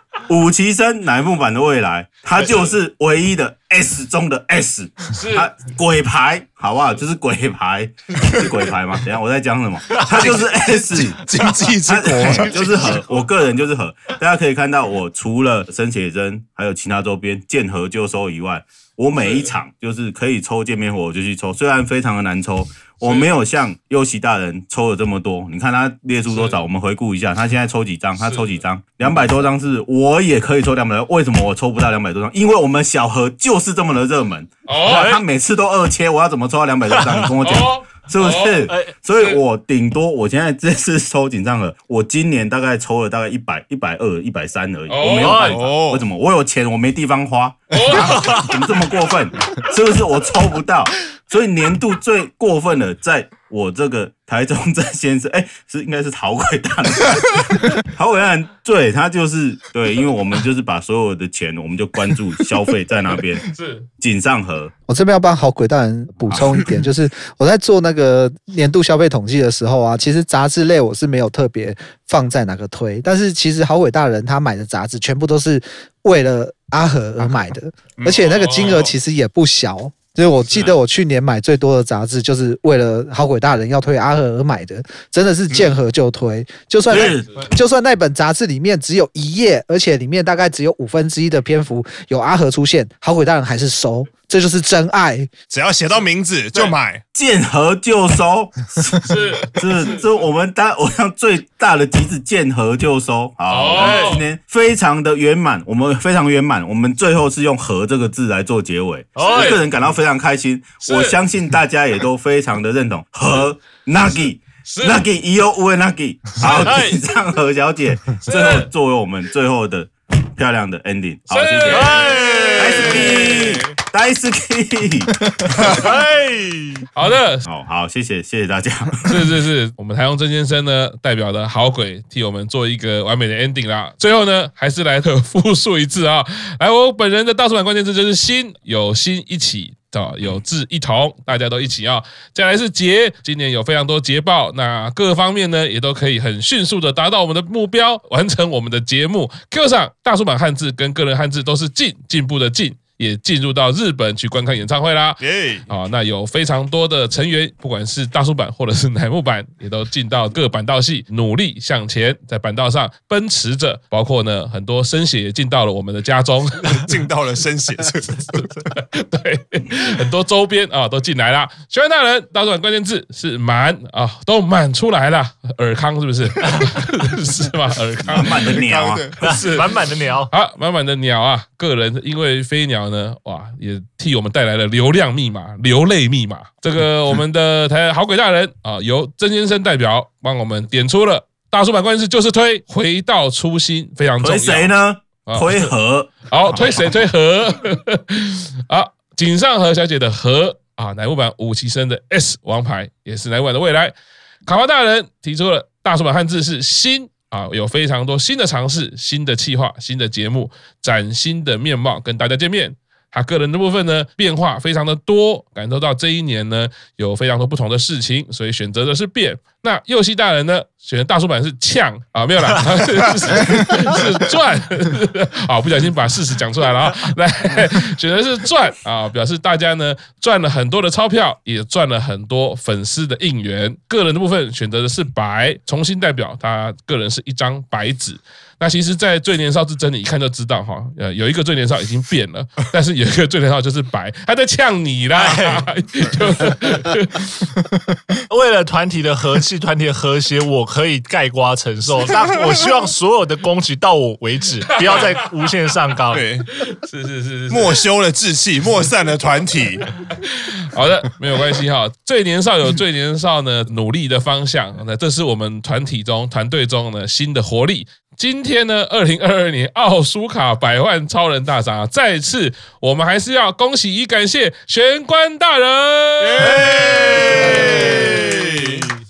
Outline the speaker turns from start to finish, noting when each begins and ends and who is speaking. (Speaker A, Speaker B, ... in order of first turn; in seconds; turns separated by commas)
Speaker A: 0.2-63.5, Speaker B: 5.1-5.5, Speaker C: 10.0-13.1, Speaker B: 19.2-19.5, Speaker B: 23.0-23.3, Speaker B: 26.3-26.6, Speaker B: 28.2-28.6, Speaker B: 34.7-35.1, Speaker D: 34.9-35.2, Speaker D: 36.9-37.3, Speaker B: 37.4-39.4, Speaker D: 38.7-38.9, Speaker B: 44.9-45.6, Speaker D: 45.1-45.6, Speaker C: 45.4-46.0, Speaker B: 47.7-48.5, Speaker D: 47.9-48.5, Speaker B: 63.4-63.9, Speaker A: 64.0-64.7, Speaker E: 64.9-95.3, Speaker A: 66.3-66.6, Speaker C: 78.0-78.7, Speaker B: 78.1-78.9, Speaker A: 86.9-87.4, Speaker C: 95.5-97.0, Speaker A: 97.1-125.8, Speaker B: 99.0-99.9, Speaker B: 103.5-104.2, Speaker D: 103.8-104.2, Speaker B: 109.2-109.6, Speaker D: 109.2-109.6, Speaker B: 110.8-111.2, Speaker B: 114.7-115.1, Speaker B: 116.4-117.0, Speaker D: 116.5-117.0, Speaker B: 118.2-118.7, Speaker B: 121.3-123.8, Speaker D: 121.7-123.3, Speaker D: 125.7-126.9, Speaker B: 126.9-127.5, Speaker A: 127.5-129.1, Speaker B: 129.0-166.9, Speaker C: 155.2-155.7, Speaker C: 166.6-168.5, Speaker B: 168.3-178.6, Speaker A: 178.1-179.1, Speaker C: 178.5-179.2, Speaker B: 179.2-179.7, Speaker D: 179.2-180.3, Speaker B: 180.3-203.9, Speaker A: 194.2-196.8, Speaker B: 204.5-247.5, Speaker D: 245.2-245.7, Speaker D: 248.3-256.2, Speaker C: 256.1-256.5, Speaker B: 256.5-257.8, Speaker C: 257.5-259.9, Speaker B: 260.0-278.3, Speaker C: 276.2-278.9, Speaker D: 276.4-277.7, Speaker E: 277.2-278.3